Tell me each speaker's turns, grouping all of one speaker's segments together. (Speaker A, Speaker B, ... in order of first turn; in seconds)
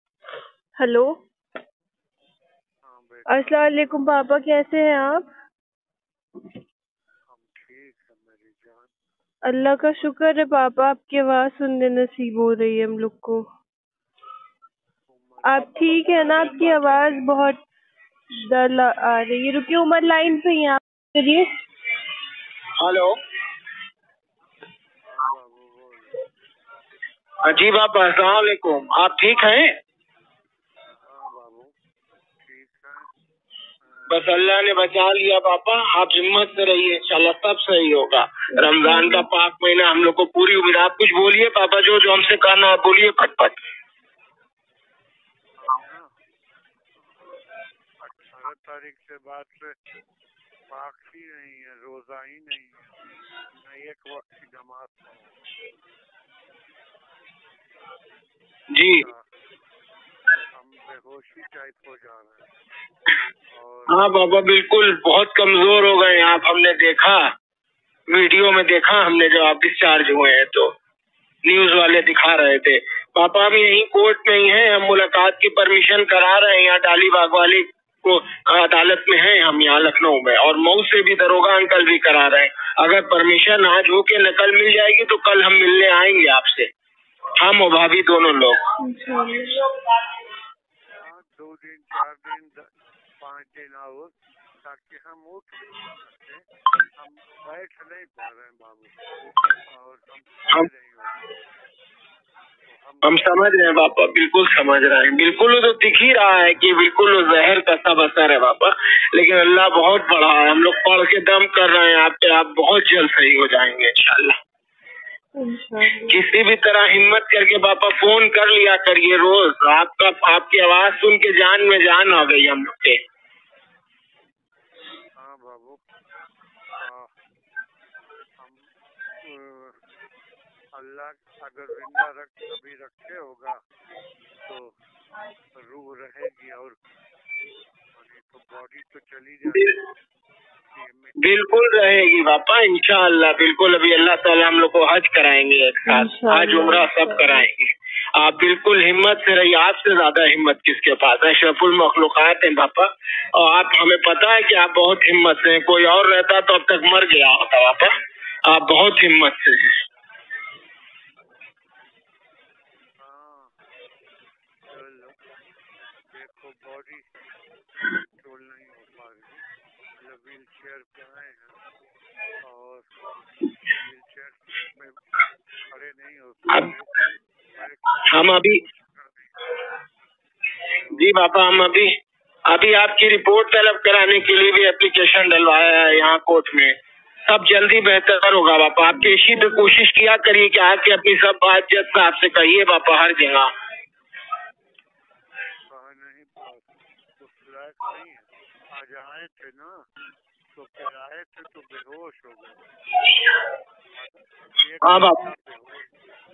Speaker A: 0.8-1.1, 3.3-5.3, 9.5-13.4, 15.4-17.6, 18.5-21.5, 38.5-39.3, 88.8-89.7, 115.3-116.2, 145.8-147.4
Speaker B: 2.8-4.2, 7.3-8.9, 9.8-10.2, 15.1-17.3, 25.0-26.3, 31.0-31.7, 32.4-33.1, 33.8-34.4, 45.6-46.1, 48.0-49.8, 50.7-55.4, 59.0-59.2, 60.5-62.5, 63.5-64.0, 91.0-101.4, 102.6-103.7, 125.2-125.8, 126.8-127.1, 128.4-128.7, 129.2-129.8, 130.7-133.6, 134.4-134.7, 135.5-136.8, 137.9-139.7, 140.7-141.9, 163.0-163.5, 164.7-165.2, 166.1-167.1, 168.2-169.4, 170.0-171.6, 172.4-179.5, 180.7-181.2, 195.7-199.8, 200.5-202.6, 203.9-205.9
Speaker C: 22.8-23.1, 27.4-29.8, 34.1-43.6, 58.7-59.0, 63.9-67.2, 68.1-70.7, 71.4-86.7, 87.4-88.6, 103.0-114.3, 116.1-123.0, 139.5-139.7, 141.2-157.9, 158.4-159.8, 178.1-178.6, 180.9-181.9, 182.5-193.5, 204.8-205.2